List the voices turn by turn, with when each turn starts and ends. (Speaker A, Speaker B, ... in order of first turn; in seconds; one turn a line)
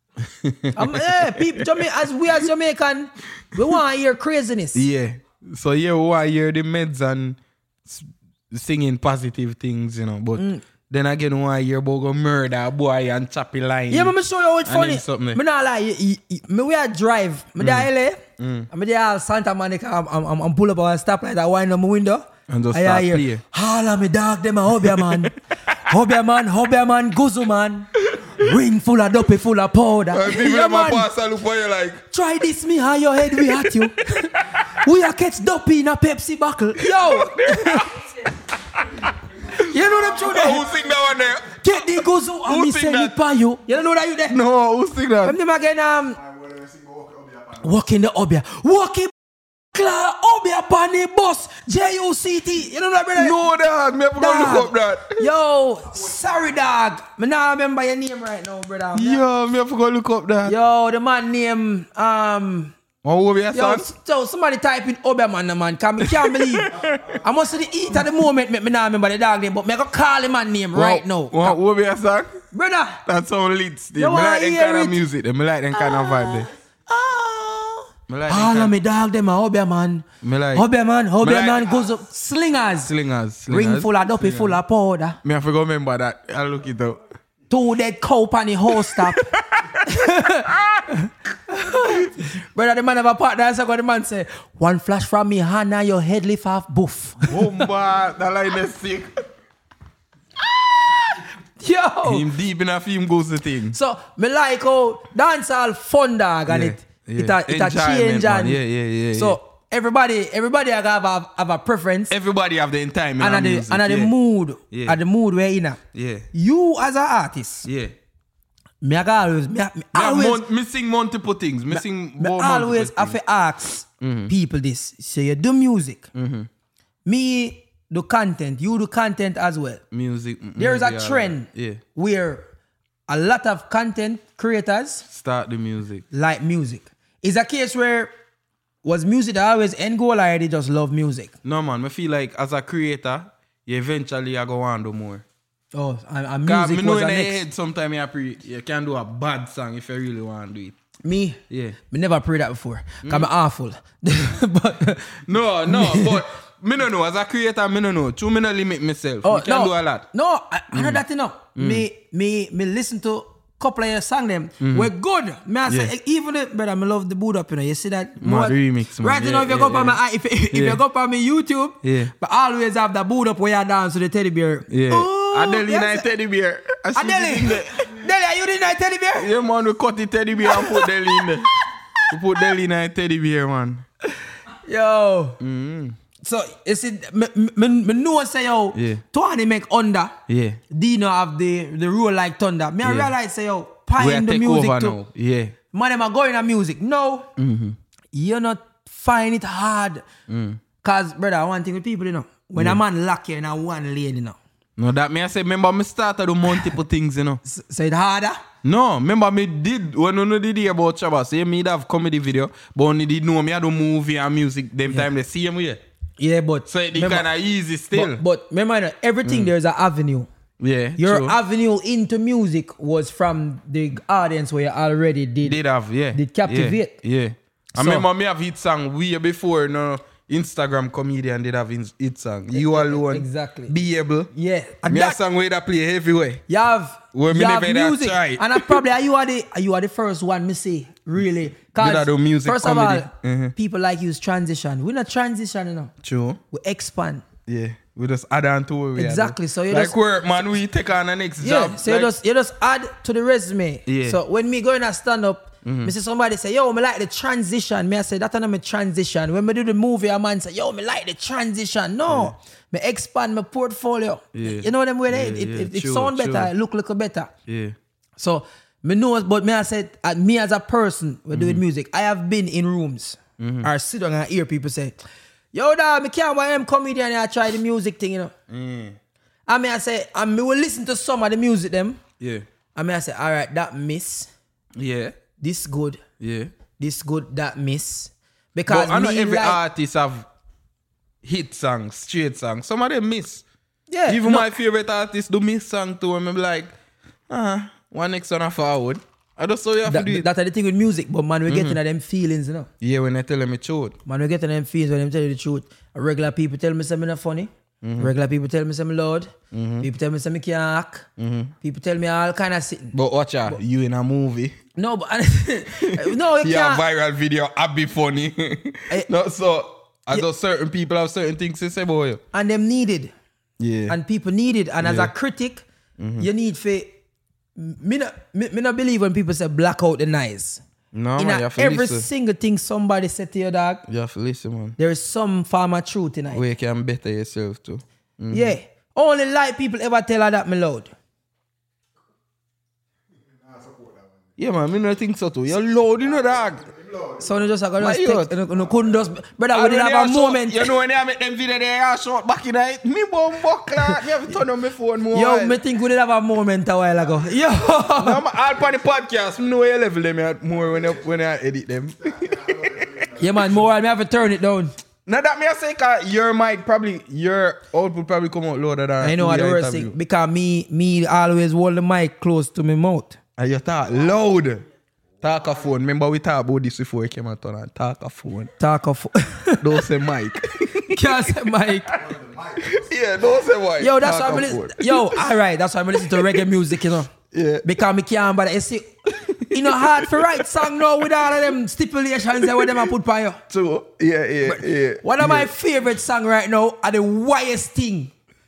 Speaker A: 0.3-1.9
Speaker B: 0.7-4.8
Speaker A: 4.7-15.4
Speaker B: 10.4-10.6
Speaker B: 13.9-31.1
Speaker A: 17.6-18.7
Speaker A: 22.5-23.4
Speaker A: 24.8-25.3
Speaker A: 28.1-28.4
Speaker A: 30.1-32.0
Speaker B: 32.1-38.0
Speaker A: 33.3-34.2
Speaker A: 36.8-38.8
Speaker C: 39.1-41.4
Speaker A: 39.5-43.2
Speaker B: 39.6-40.7
Speaker B: 41.5-44.4
Speaker A: 44.3-45.4
Speaker B: 45.2-46.2
Speaker C: 46.1-47.8
Speaker B: 47.6-49.1
Speaker B: 49.7-53.4
Speaker A: 53.1-55.2
Speaker B: 54.1-59.2
Speaker C: 56.2-56.5
Speaker A: 58.9-60.5
Speaker B: 60.4-62.7
Speaker A: 63.0-63.9
Speaker B: 63.5-71.6
Speaker A: 66.0-67.1
Speaker A: 70.7-72.3
Speaker B: 72.5-73.0
Speaker A: 73.0-76.5
Speaker B: 74.0-75.0
Speaker B: 75.7-82.9
Speaker A: 78.1-78.7
Speaker A: 80.2-80.7
Speaker A: 81.2-81.9
Speaker A: 82.8-84.6
Speaker B: 83.5-85.2
Speaker A: 85.2-87.0
Speaker B: 87.5-89.3
Speaker A: 88.7-89.8
Speaker B: 89.8-97.5
Speaker A: 90.5-90.8
Speaker A: 97.3-99.2
Speaker B: 101.6-102.3
Speaker A: 102.0-103.8
Speaker B: 103.7-108.6
Speaker A: 106.5-109.4
Speaker B: 109.1-112.1
Speaker A: 112.1-114.1
Speaker B: 113.2-115.8
Speaker A: 114.7-115.0
Speaker A: 115.9-116.3
Speaker B: 116.3-117.7
Speaker A: 117.6-117.9
Speaker B: 118.8-120.4
Speaker A: 119.9-123.2
Speaker B: 121.7-126.1
Speaker A: 124.0-124.3
Speaker A: 126.1-126.5
Speaker B: 127.0-129.8
Speaker A: 129.9-131.8
Speaker B: 130.6-132.4
Speaker B: 133.1-135.1
Speaker A: 135.1-136.0
Speaker B: 136.1-138.1
Speaker B: 138.8-141.3
Speaker A: 141.4-145.2
Speaker B: 145.7-147.4
Speaker A: 146.4-150.8
Speaker B: 151.0-156.2
Speaker A: 151.5-151.8
Speaker A: 153.0-153.3
Speaker A: 155.3-160.1
Speaker B: 159.2-176.1
Speaker A: 160.7-161.0
Speaker A: 161.6-161.8
Speaker A: 164.6-164.9
Speaker A: 165.7-165.9
Speaker A: 168.2-170.0
Speaker A: 170.5-170.8
Speaker A: 171.8-172.1
Speaker A: 174.7-177.9
Speaker B: 176.9-179.3
Speaker A: 179.2-181.5
Speaker B: 180.4-181.0
Speaker A: 182.1-183.8
Speaker B: 184.6-185.4
Speaker A: 185.4-186.0
Speaker B: 186.2-190.2
Speaker A: 188.7-189.0
Speaker A: 190.3-190.6
Speaker B: 190.7-195.0
Speaker A: 192.8-193.1
Speaker A: 194.0-195.5
Speaker B: 195.7-197.3
Speaker A: 197.4-197.8
Speaker B: 198.1-200.0
Speaker A: 200.3-200.6
Speaker B: 200.8-204.4
Speaker A: 204.8-207.4
Speaker B: 207.4-208.4
Speaker A: 208.6-215.8
Speaker B: 216.2-217.2
Speaker A: 216.7-218.2
Speaker B: 217.9-220.3
Speaker A: 219.2-219.5
Speaker A: 220.6-221.4
Speaker B: 221.0-225.6
Speaker A: 225.4-234.3
Speaker B: 226.1-226.9
Speaker B: 227.7-228.0
Speaker B: 232.5-233.7
Speaker B: 234.3-235.2
Speaker A: 234.8-236.4
Speaker B: 236.5-245.9
Speaker A: 237.1-238.8
Speaker A: 241.8-243.5
Speaker A: 246.0-246.4
Speaker B: 246.5-247.2
Speaker A: 247.5-252.1
Speaker B: 248.9-249.9
Speaker B: 251.4-267.3
Speaker A: 253.8-254.2
Speaker A: 255.6-255.9
Speaker A: 262.1-262.3
Speaker A: 264.3-266.5
Speaker A: 267.5-267.8
Speaker B: 268.2-275.0
Speaker A: 271.3-271.6
Speaker A: 273.4-273.7
Speaker B: 275.5-278.3
Speaker A: 278.5-279.0
Speaker B: 279.5-282.0
Speaker A: 282.2-282.4
Speaker B: 282.7-284.3
Speaker A: 284.8-285.1
Speaker B: 285.4-286.0
Speaker A: 286.2-286.5
Speaker B: 286.8-289.6
Speaker A: 288.7-290.3
Speaker A: 291.2-293.4
Speaker B: 293.9-294.5
Speaker A: 294.1-296.7
Speaker A: 297.3-300.3
Speaker B: 299.8-302.7
Speaker A: 301.5-301.8
Speaker A: 302.8-304.0
Speaker B: 304.1-311.1
Speaker A: 307.8-308.1
Speaker A: 309.5-309.9
Speaker A: 311.2-311.5
Speaker B: 311.6-312.9
Speaker A: 312.9-314.6
Speaker B: 314.8-316.8
Speaker A: 315.7-322.2
Speaker B: 322.3-323.1
Speaker A: 323.6-323.9
Speaker B: 323.9-325.6
Speaker A: 324.8-325.1
Speaker A: 326.0-326.3
Speaker B: 326.2-326.9
Speaker B: 327.6-330.6
Speaker A: 330.9-332.1
Speaker B: 331.2-333.8
Speaker A: 333.9-334.8
Speaker B: 334.8-336.4
Speaker A: 336.3-338.5
Speaker B: 338.3-340.9
Speaker C: 343.4-344.3
Speaker A: 344.4-346.6
Speaker C: 346.0-347.5
Speaker B: 347.2-350.7
Speaker A: 347.8-348.3
Speaker C: 348.5-348.9
Speaker A: 349.5-355.6
Speaker B: 355.1-358.2
Speaker A: 357.9-363.1
Speaker C: 360.5-361.2
Speaker C: 362.0-363.6
Speaker B: 363.2-364.7
Speaker A: 365.1-369.9
Speaker B: 369.0-373.2
Speaker A: 373.4-374.6
Speaker A: 375.2-378.5
Speaker B: 378.6-379.8
Speaker A: 379.6-381.4
Speaker B: 380.8-382.0
Speaker C: 381.9-383.4
Speaker A: 382.6-385.2
Speaker B: 383.8-387.1
Speaker A: 386.0-386.5
Speaker A: 387.3-387.6
Speaker B: 387.6-388.9
Speaker A: 389.1-390.7
Speaker B: 389.5-393.4
Speaker A: 392.4-392.8
Speaker A: 393.5-395.5
Speaker B: 394.4-398.1